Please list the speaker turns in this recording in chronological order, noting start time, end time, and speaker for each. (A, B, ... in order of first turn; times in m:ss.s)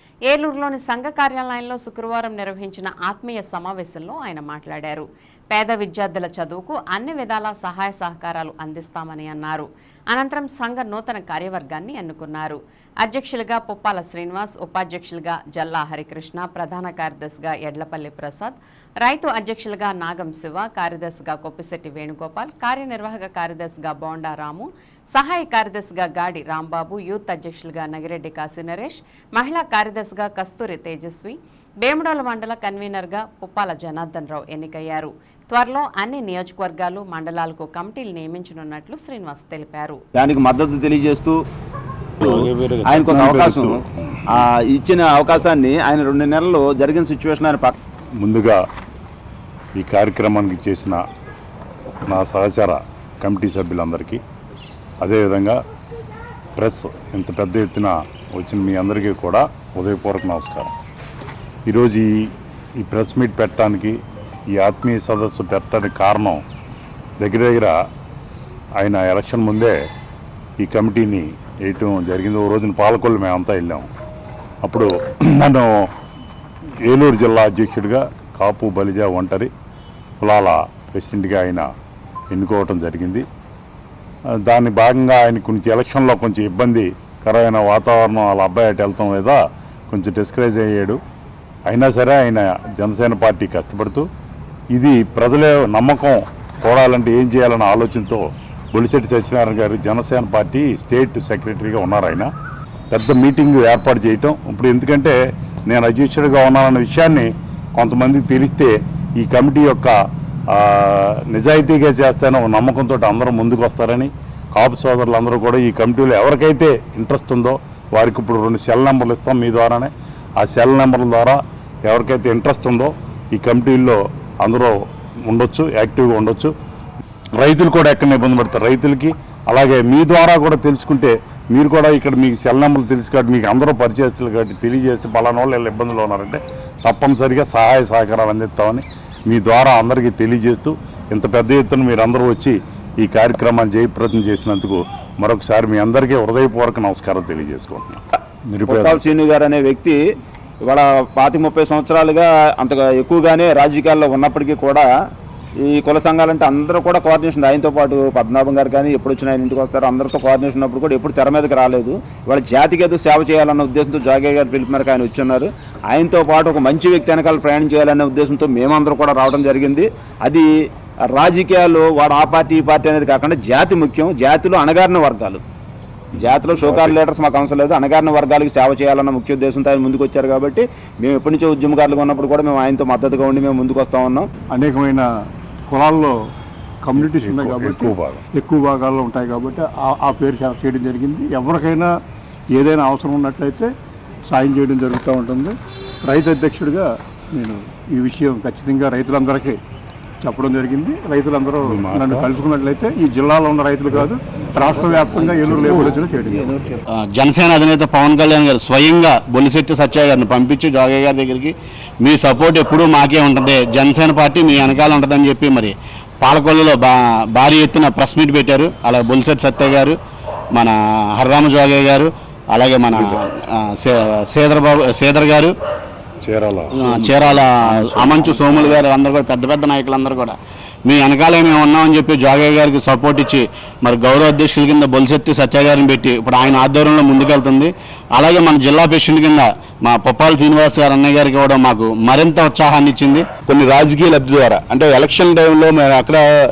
0:00.3-0:40.0 A
0:40.2-0:41.4 B
0:42.2-0:44.4 C
0:42.2-0:47.7 B
0:48.2-0:48.6 C
0:49.8-0:51.0 C
0:52.1-0:54.2 C
0:55.0-0:55.6 C
0:56.6-1:00.7 C
1:01.7-1:02.2 C
1:02.8-1:04.0 C
1:04.5-1:06.4 C
1:07.2-1:07.8 C
1:08.8-1:09.8 C
1:10.6-1:13.9 C
1:14.6-1:15.7 C
1:16.9-1:19.5 C
1:20.2-1:21.7 C
1:22.3-1:23.2 C
1:24.5-1:29.4 C
1:29.9-1:31.0 C
1:31.7-1:34.1 C
1:34.7-1:38.2 C
1:38.7-1:42.3 C
1:42.9-1:45.2 C
1:45.7-1:49.9 C
1:50.5-2:04.8 C
2:05.3-2:06.5 C
2:07.4-2:29.0 C
2:28.7-2:30.0 B
2:30.6-2:34.9 B
2:35.6-2:50.5 B
2:51.1-2:55.4 B
2:56.2-3:04.3 B
2:56.2-2:57.0 C
3:04.5-3:05.1 D
3:05.7-3:06.2 D
3:06.8-3:11.9 D
3:07.0-3:08.2 C
3:12.5-3:13.7 D
3:14.3-3:19.6 D
3:20.2-3:26.7 D
3:21.7-3:22.3 C
3:27.0-3:40.0 E
3:40.5-3:45.5 E
3:46.2-3:46.8 C
3:46.8-4:03.4 E
3:47.0-3:47.3 F
3:48.0-3:48.8 F
4:03.5-4:06.2 F